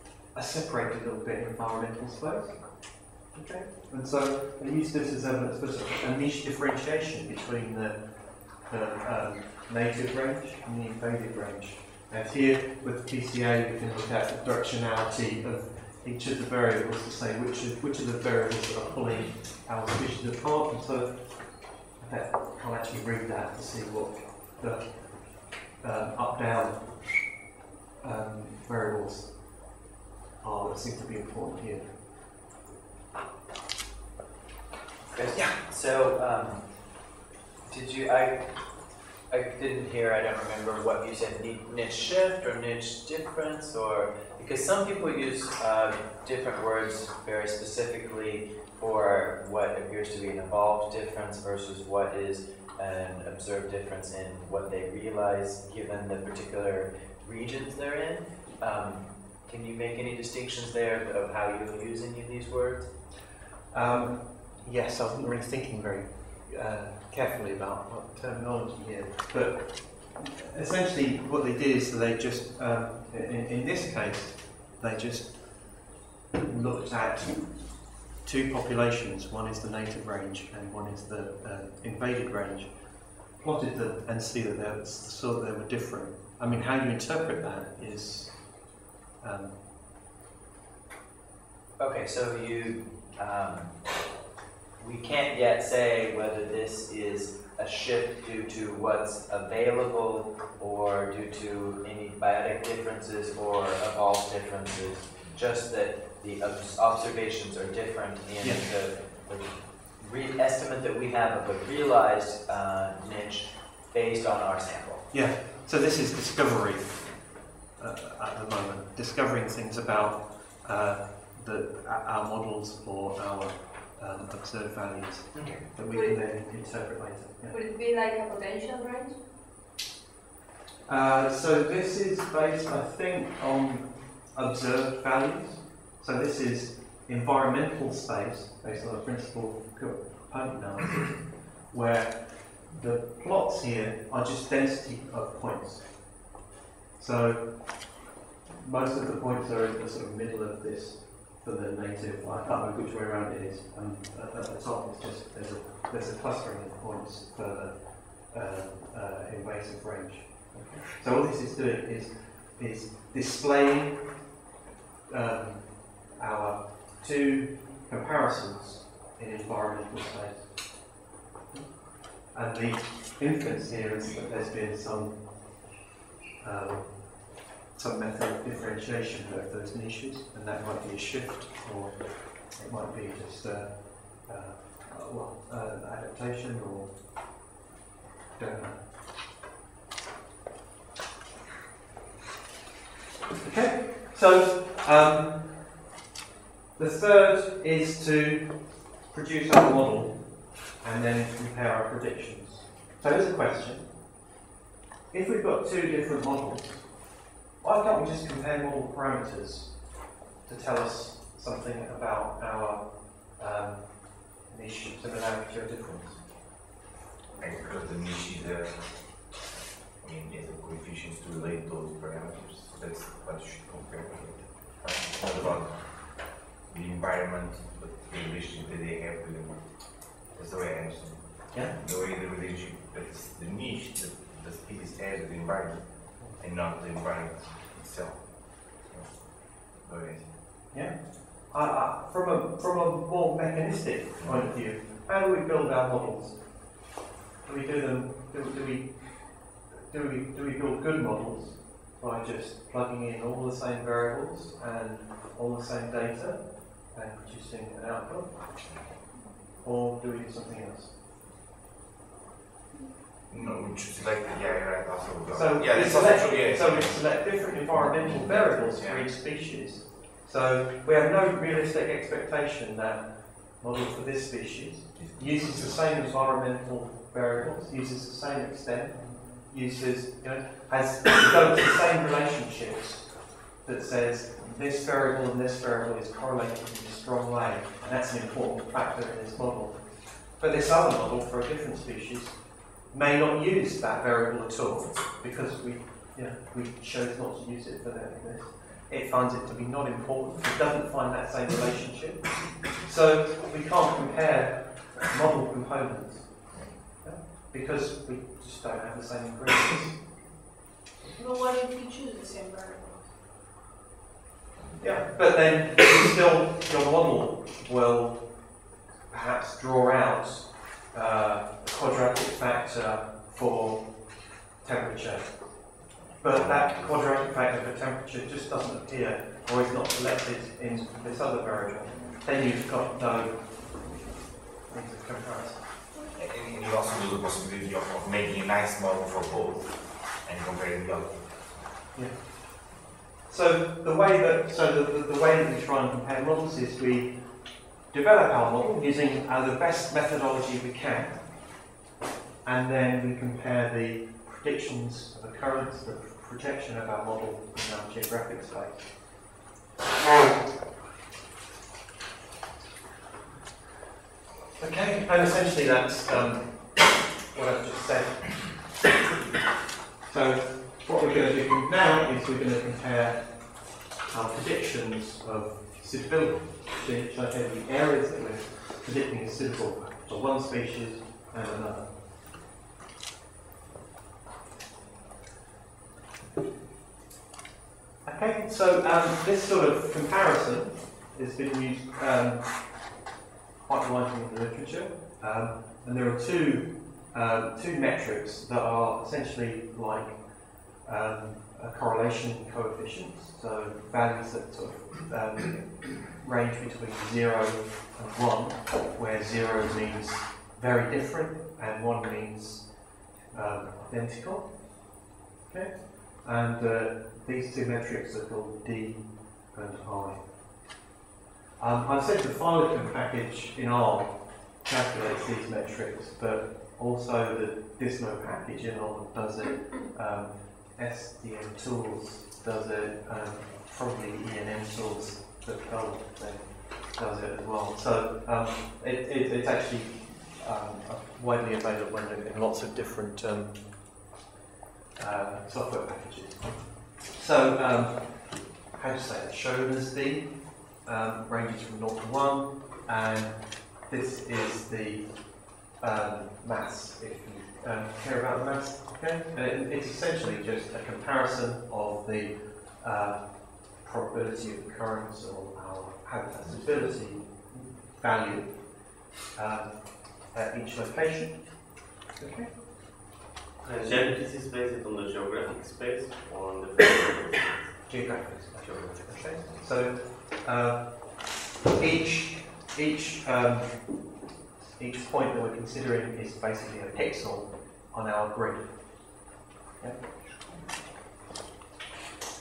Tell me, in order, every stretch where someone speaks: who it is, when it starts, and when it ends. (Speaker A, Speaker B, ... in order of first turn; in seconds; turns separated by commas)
Speaker A: 0.3-21.3, Speaker A: 22.0-24.9, Speaker A: 25.8-27.0, Speaker A: 28.0-29.4, Speaker A: 30.4-31.9, Speaker B: 35.1-37.1, Speaker B: 37.7-38.5, Speaker B: 39.3-62.9, Speaker A: 63.7-75.6, Speaker A: 76.4-77.7, Speaker A: 78.2-82.7, Speaker A: 83.4-88.4, Speaker A: 89.2-89.5, Speaker B: 91.8-93.9, Speaker B: 94.8-115.1, Speaker A: 115.1-117.1, Speaker A: 117.8-127.6, Speaker B: 125.3-125.6, Speaker C: 125.9-126.2, Speaker C: 127.5-129.2, Speaker A: 130.9-145.9, Speaker A: 147.0-147.9, Speaker A: 148.5-164.0, Speaker A: 165.1-170.5, Speaker A: 171.5-175.2, Speaker A: 176.4-177.1, Speaker A: 177.7-186.9, Speaker A: 188.4-188.8, Speaker A: 193.4-195.7, Speaker A: 196.8-203.9, Speaker A: 205.1-206.9, Speaker A: 207.6-209.8, Speaker A: 210.4-216.2, Speaker D: 217.4-218.8, Speaker D: 220.0-240.2, Speaker A: 240.7-246.4, Speaker D: 244.2-244.5, Speaker A: 247.4-258.3, Speaker A: 259.6-260.9, Speaker D: 263.3-267.0, Speaker A: 265.3-289.8, Speaker D: 267.7-269.1, Speaker D: 275.0-275.8, Speaker A: 290.4-310.0, Speaker C: 311.1-313.1, Speaker A: 314.8-318.5, Speaker A: 319.1-325.6, Speaker A: 326.2-333.5, Speaker D: 326.2-326.9, Speaker A: 334.7-335.6, Speaker D: 336.1-341.6, Speaker A: 341.9-342.4, Speaker A: 343.3-347.2, Speaker A: 347.9-351.2, Speaker A: 352.4-358.9, Speaker A: 364.6-368.7, Speaker A: 370.1-381.9, Speaker A: 388.1-392.7, Speaker A: 393.6-400.2, Speaker A: 400.8-412.7, Speaker A: 413.3-414.6, Speaker A: 415.5-420.2, Speaker A: 421.6-443.6, Speaker A: 445.0-455.1, Speaker A: 455.7-468.8, Speaker A: 469.3-471.6, Speaker A: 472.2-472.5, Speaker E: 473.6-478.0, Speaker A: 477.9-484.1, Speaker E: 478.6-479.4, Speaker A: 484.8-488.7